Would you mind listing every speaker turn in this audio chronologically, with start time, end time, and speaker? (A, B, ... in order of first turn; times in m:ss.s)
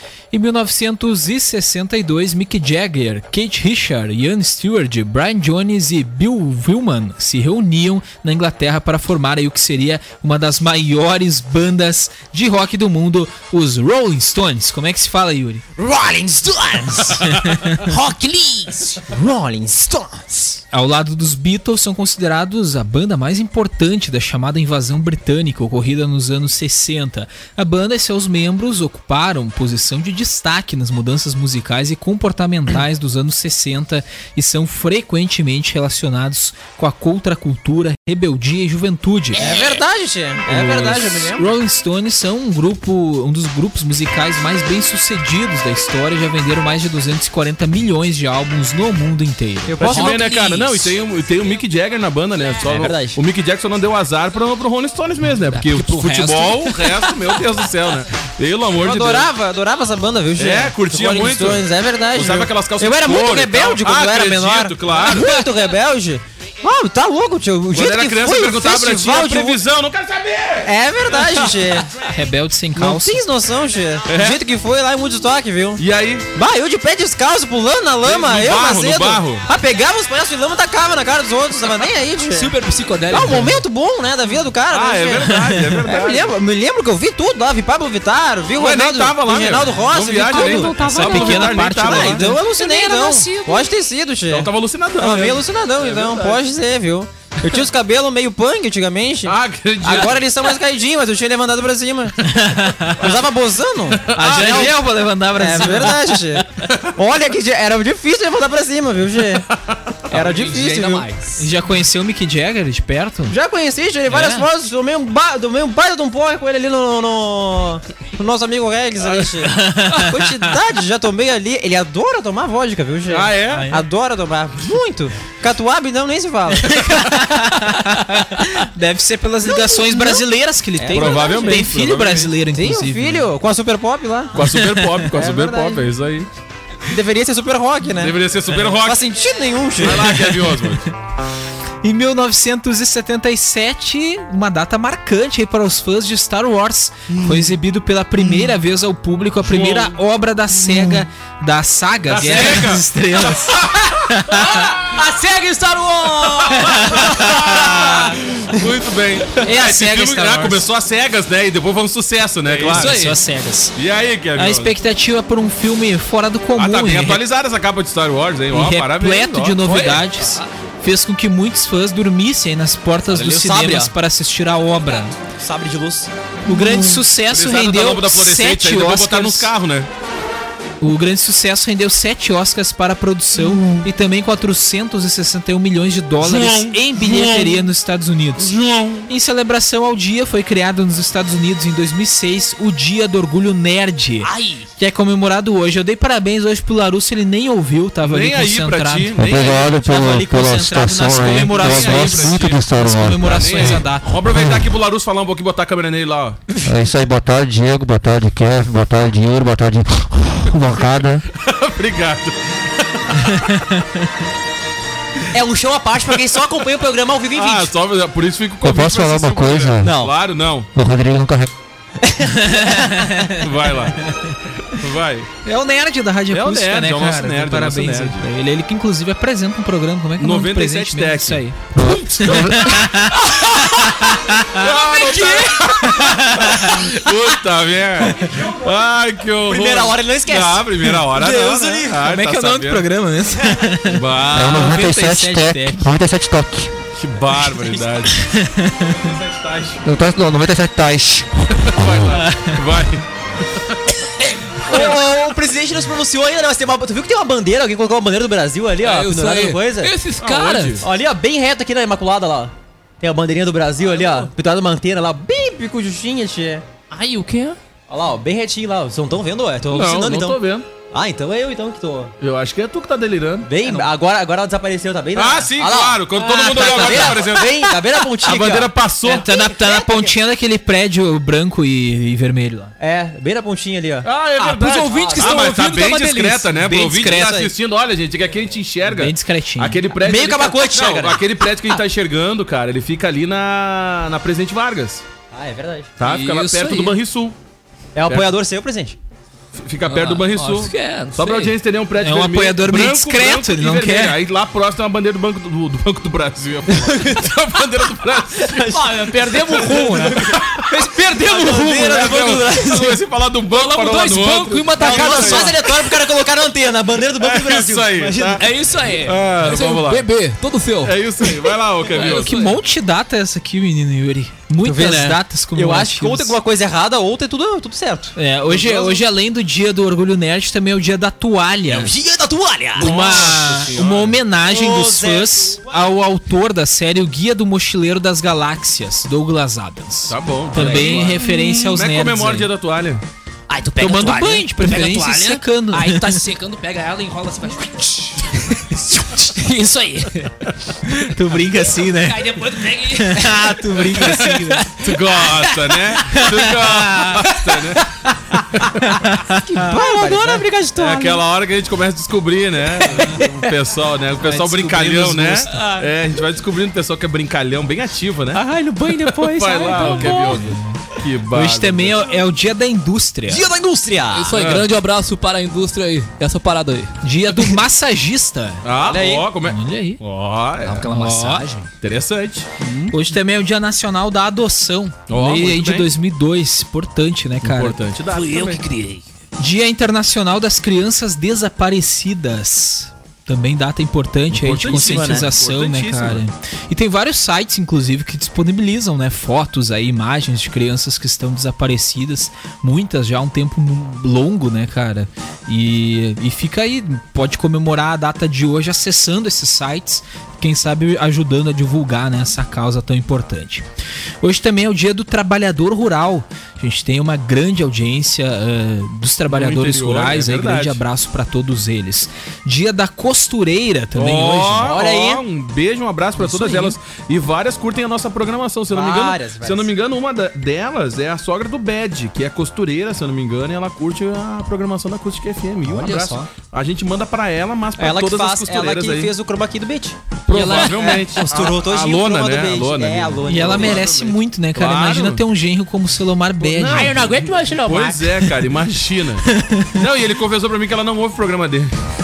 0:00.3-0:15.6 A
0:15.8-0:17.4 B
0:17.3-0:17.8 A
0:17.8-0:19.0 C
0:19.0-0:20.6 B
0:20.7-0:39.5 A
0:39.4-0:41.5 B
0:39.4-0:39.8 C
0:40.5-0:50.1 A
0:49.7-0:50.4 B
0:49.8-0:59.3 D
0:49.9-0:51.0 C
0:52.6-0:53.2 B
0:55.5-0:57.1 C
0:58.8-1:09.6 B
1:00.4-1:05.4 D
1:07.7-1:10.7 D
1:10.6-1:11.9 B
1:12.0-1:13.2 A
1:12.8-1:15.8 B
1:14.1-1:14.4 D
1:15.8-1:16.3 D
1:16.3-1:22.5 B
1:18.0-1:19.5 D
1:22.3-1:23.6 C
1:23.1-1:42.3 B
1:24.7-1:26.3 D
1:28.6-1:32.3 D
1:30.3-1:32.4 A
1:30.4-1:31.1 C
1:32.3-1:33.7 C
1:34.3-1:36.4 D
1:39.2-1:40.2 D
1:42.2-1:43.1 A
1:43.0-1:44.8 B
1:44.1-1:44.7 D
1:44.1-1:46.2 A
1:45.4-1:49.5 B
1:46.6-1:46.9 D
1:49.5-1:49.9 D
1:50.1-1:51.1 B
1:50.1-1:51.4 C
1:51.4-1:53.4 A
1:53.3-2:07.2 B
1:54.1-1:54.5 A
1:59.4-2:00.2 A
2:03.1-2:03.7 D
2:03.5-2:03.8 A
2:06.7-2:13.3 A
2:09.4-2:10.2 B
2:10.8-2:11.7 B
2:10.9-2:12.4 D
2:12.5-2:14.5 B
2:14.4-2:16.3 D
2:14.5-2:15.0 A
2:15.1-2:15.9 B
2:16.9-2:20.2 B
2:18.0-2:19.0 D
2:19.8-2:20.9 D
2:20.3-2:20.7 A
2:21.8-2:34.7 A
2:29.4-2:30.0 D
2:32.1-2:32.9 D
2:33.5-2:34.0 D
2:34.3-2:37.4 C
2:36.5-2:43.0 D
2:36.5-2:38.0 A
2:39.4-2:40.7 A
2:42.5-2:43.2 C
2:42.5-2:43.8 A
2:43.8-2:44.7 D
2:44.4-2:47.2 A
2:46.6-2:50.0 D
2:48.5-2:55.2 A
2:50.2-2:50.5 C
2:53.1-2:53.9 B
2:55.3-2:56.1 B
2:56.5-2:59.5 A
2:57.3-2:59.9 D
3:00.8-3:19.3 A
3:06.2-3:07.6 D
3:08.4-3:09.1 D
3:14.2-3:14.7 C
3:18.0-3:20.1 D
3:19.2-3:23.5 E
3:19.8-3:24.1 A
3:21.1-3:22.6 D
3:23.2-3:26.4 D
3:26.6-3:31.2 E
3:30.8-3:33.6 D
3:33.3-3:33.9 A
3:35.3-3:37.7 B
3:37.3-3:40.7 D
3:38.6-3:39.9 E
3:39.8-3:40.1 B
3:40.7-3:41.5 E
3:42.0-3:43.3 B
3:42.4-3:43.4 A
3:43.4-3:44.1 D
3:44.6-3:45.3 D
3:45.4-3:56.9 A
3:46.3-3:48.3 D
3:50.2-4:02.9 D
3:51.8-3:52.4 E
3:58.2-3:58.5 B
3:59.4-4:02.0 B
4:02.0-4:05.9 A
4:03.8-4:04.8 D
4:04.3-4:06.7 E
4:07.0-4:08.2 D
4:07.5-4:07.8 B
4:08.2-4:09.1 A
4:08.8-4:09.8 D
4:09.8-4:12.1 E
4:11.6-4:13.0 D
4:12.2-4:12.6 A
4:14.7-4:19.9 B
4:18.8-4:20.8 C
4:20.2-4:20.8 D
4:20.8-4:26.6 B
4:23.8-4:24.3 C
4:26.9-4:27.6 C
4:27.9-4:32.1 B
4:29.7-4:30.7 D
4:32.2-4:33.5 D
4:33.4-4:40.2 B
4:33.6-4:33.9 C
4:35.2-4:39.3 D
4:39.0-4:42.7 A
4:42.8-4:44.1 B
4:44.0-4:55.0 D
4:44.4-4:46.5 C
4:44.8-4:45.5 B
4:46.6-4:47.5 A
4:47.1-4:47.5 B
4:48.8-4:49.8 A
4:50.0-4:51.8 B
4:55.3-4:56.0 B
4:56.0-4:57.4 D
4:56.0-4:57.0 C
4:58.0-4:59.0 B
4:59.6-5:08.7 D
4:59.9-5:01.5 C
5:02.0-5:04.2 A
5:06.7-5:07.4 B
5:08.4-5:13.0 B
5:08.7-5:10.3 C
5:10.2-5:15.6 D
5:10.9-5:12.2 C
5:13.5-5:15.8 C
5:14.8-5:18.4 B
5:17.2-5:18.5 D
5:18.4-5:21.2 C
5:19.0-5:20.1 D
5:20.8-5:22.4 D
5:21.9-5:22.6 C
5:22.0-5:26.4 A
5:24.6-5:28.1 B
5:28.2-5:31.9 A
5:28.5-5:29.0 D
5:31.7-5:33.1 B
5:32.8-5:34.2 D
5:32.8-5:42.5 A
5:33.4-5:34.0 C
5:34.4-5:35.8 B
5:40.1-5:43.0 D
5:40.6-5:41.6 C
5:43.5-5:50.5 C
5:43.8-5:46.2 A
5:50.8-5:52.3 A
5:51.5-5:56.3 C
5:52.9-5:54.7 A
5:54.8-5:57.9 D
5:56.1-5:57.2 A
5:57.2-5:57.7 C
5:58.6-5:58.9 D
5:58.9-5:59.7 A
5:59.4-6:01.2 B
5:59.7-6:00.6 C
6:00.8-6:08.4 D
6:04.2-6:05.6 A
6:08.3-6:10.5 B
6:09.1-6:12.1 D
6:09.7-6:10.8 A
6:11.3-6:13.4 A
6:13.3-6:14.4 B
6:14.1-6:17.0 C
6:14.3-6:14.7 D
6:17.0-6:18.7 A
6:18.6-6:20.9 D
6:18.8-6:19.3 B
6:19.5-6:20.0 A
6:20.6-6:21.7 C
6:20.9-6:21.4 A
6:21.8-6:22.5 D
6:22.6-6:23.0 C
6:22.9-6:27.8 A
6:25.1-6:25.9 D
6:27.4-6:28.6 D
6:28.1-6:29.0 C
6:29.4-6:53.6 A
6:34.3-6:36.2 D
6:34.6-6:35.3 B
6:54.2-7:04.7 A
6:59.3-7:00.8 D
7:04.0-7:19.1 D
7:04.6-7:05.2 B
7:06.3-7:06.5 C
7:06.3-7:06.7 A
7:08.7-7:09.7 B
7:15.7-7:16.3 C
7:17.8-7:20.0 B
7:20.3-7:25.2 D
7:20.3-7:21.1 C
7:20.5-7:24.0 B
7:23.3-7:27.0 A
7:26.4-7:31.8 D
7:26.6-7:28.2 C
7:29.3-7:29.8 A